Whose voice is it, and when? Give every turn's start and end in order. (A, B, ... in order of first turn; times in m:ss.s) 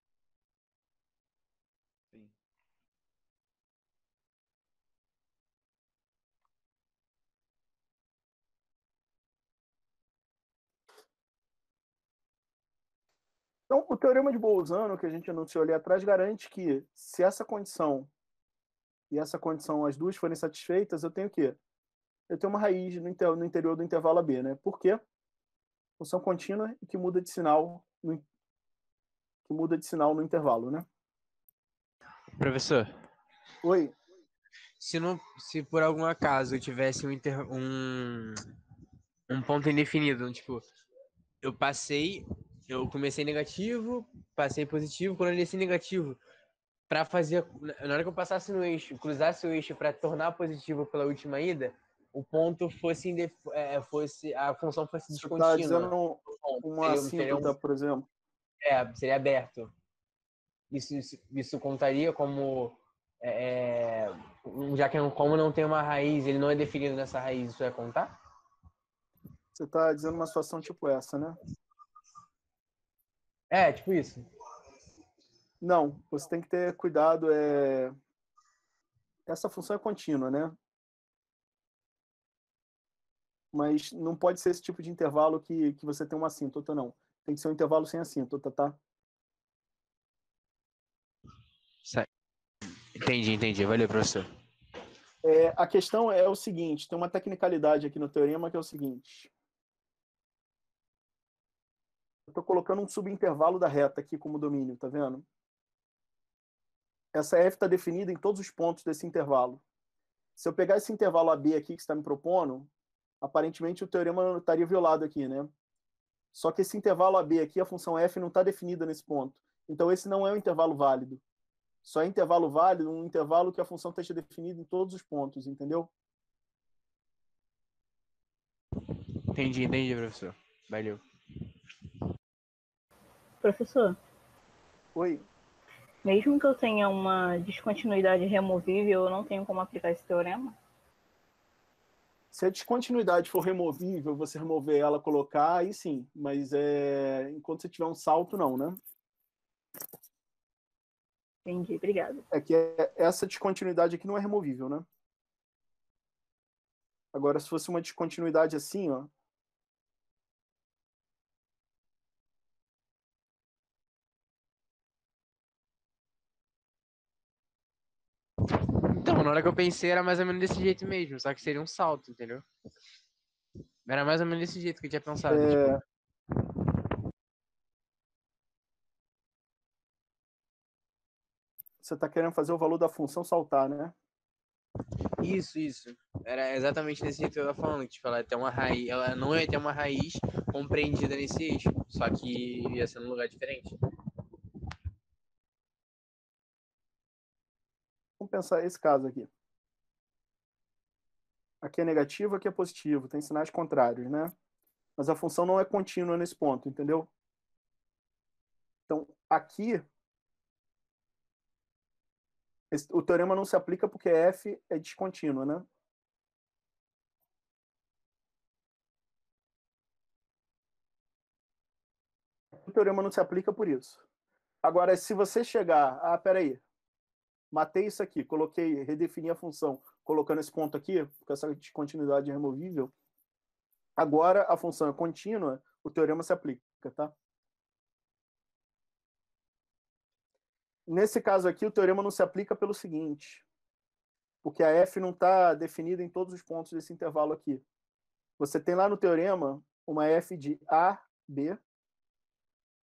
0:13.7-0:18.1 A
0:19.1-0:21.6 A
0:22.3-0:25.0 A
0:26.0-0:28.2 A
0:29.4-0:30.8 A
0:32.4-0:32.9 B
0:33.6-0:33.9 A
0:34.8-0:38.4 B
0:39.3-0:40.6 B
0:41.4-0:46.2 B
0:46.9-0:57.5 B
0:55.1-0:58.1 A
0:58.6-0:59.7 B
1:00.7-1:08.1 B
1:09.5-1:11.4 A
1:13.5-1:14.3 B
1:15.6-1:17.9 A
1:19.3-1:20.5 A
1:23.5-1:28.8 A
1:33.0-1:34.3 B
1:35.2-1:39.3 A
1:42.3-1:45.2 A
1:47.1-1:49.6 A
1:50.4-1:52.7 A
1:53.2-1:55.5 A
1:56.3-2:01.2 A
2:01.8-2:05.9 A
2:09.3-2:11.0 B
2:13.4-2:14.0 C
2:14.9-2:15.2 A
2:16.0-2:20.5 C
2:22.3-2:28.8 A
2:31.4-2:32.2 C
2:32.3-2:34.9 A
2:37.1-2:39.1 A
2:48.9-2:52.4 B
2:53.8-2:55.7 B
2:55.3-2:55.8 A
3:01.8-3:03.9 A
3:05.2-3:13.7 B
3:18.2-3:19.3 A
3:21.6-3:24.3 A
3:25.0-3:27.1 A
3:28.9-3:29.8 A
3:32.7-3:35.6 A
3:42.6-3:44.0 A
3:44.6-3:46.6 A
3:47.5-3:52.9 A
3:54.0-3:57.1 A
4:00.9-4:03.4 A
4:04.4-4:07.6 A
4:08.4-4:11.6 A